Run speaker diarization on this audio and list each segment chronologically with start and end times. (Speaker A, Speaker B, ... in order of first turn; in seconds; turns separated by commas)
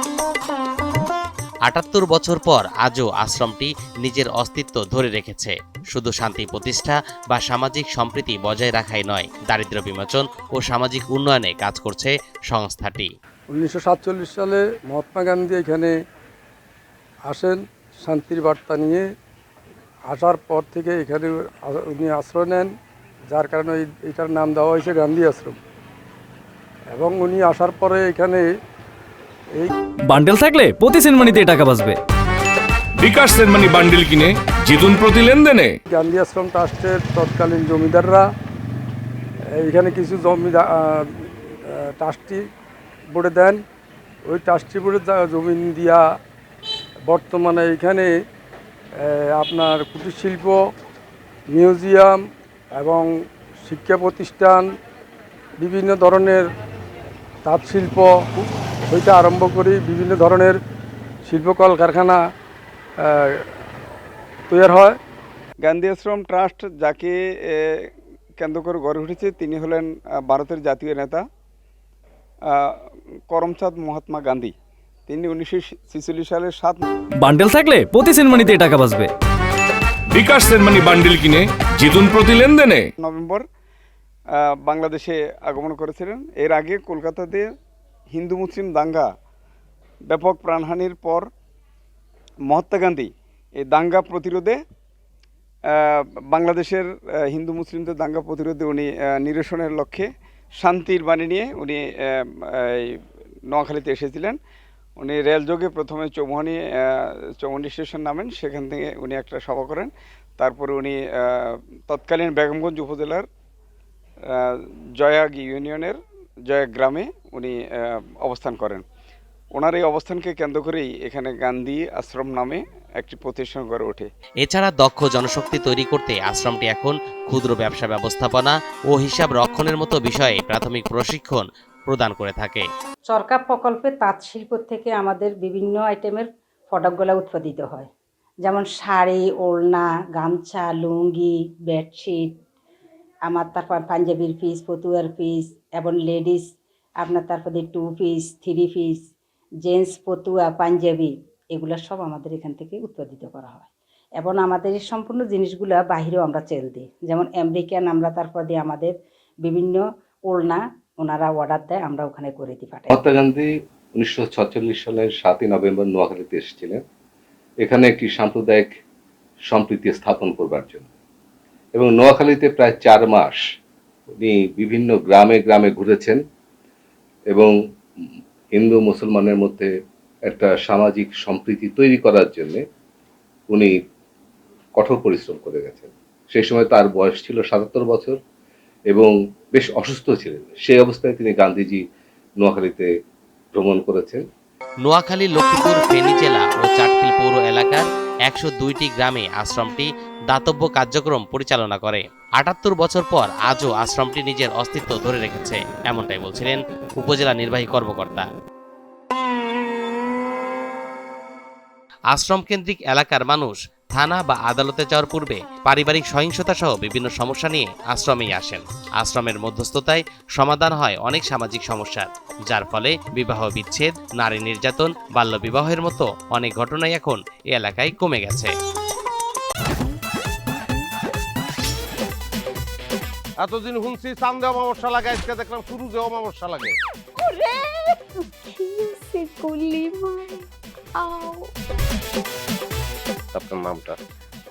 Speaker A: 1.7-13.1, Speaker B: 13.5-15.9, Speaker B: 17.3-19.0, Speaker B: 20.1-22.7, Speaker B: 23.3-25.6, Speaker B: 26.9-28.5, Speaker C: 30.1-32.0, Speaker D: 33.0-35.7, Speaker B: 35.9-38.2, Speaker B: 39.5-42.4, Speaker B: 43.1-43.6, Speaker B: 44.3-46.0, Speaker B: 47.1-48.1, Speaker B: 49.0-50.6, Speaker B: 51.5-52.2, Speaker B: 52.8-53.1, Speaker B: 53.6-54.7, Speaker B: 55.6-56.5, Speaker B: 57.5-60.6, Speaker B: 61.3-62.2, Speaker B: 63.0-63.5, Speaker B: 64.5-65.0, Speaker E: 65.6-71.2, Speaker E: 72.5-74.5, Speaker E: 75.1-76.9, Speaker C: 77.2-79.1, Speaker D: 80.1-82.9, Speaker E: 83.0-83.5, Speaker E: 84.4-87.5, Speaker E: 88.1-89.1, Speaker E: 90.1-91.3, Speaker E: 92.5-94.6, Speaker E: 95.7-104.4, Speaker E: 105.0-113.3, Speaker E: 114.3-118.8, Speaker E: 119.5-124.1, Speaker A: 124.4-132.7, Speaker F: 133.1-137.9, Speaker F: 138.4-142.4, Speaker F: 143.3-146.5, Speaker F: 147.0-149.0, Speaker F: 149.7-163.0, Speaker G: 162.9-166.8, Speaker G: 167.6-168.7, Speaker G: 169.5-170.9, Speaker G: 171.8-173.4, Speaker G: 174.2-176.2, Speaker G: 178.5-179.7, Speaker G: 180.3-182.6, Speaker G: 183.5-183.8, Speaker G: 184.8-188.2, Speaker G: 188.9-191.8, Speaker G: 192.4-192.9, Speaker G: 193.6-194.2, Speaker A: 194.8-208.3, Speaker A: 212.1-228.5, Speaker H: 233.4-236.8, Speaker I: 237.2-240.4, Speaker I: 241.0-241.5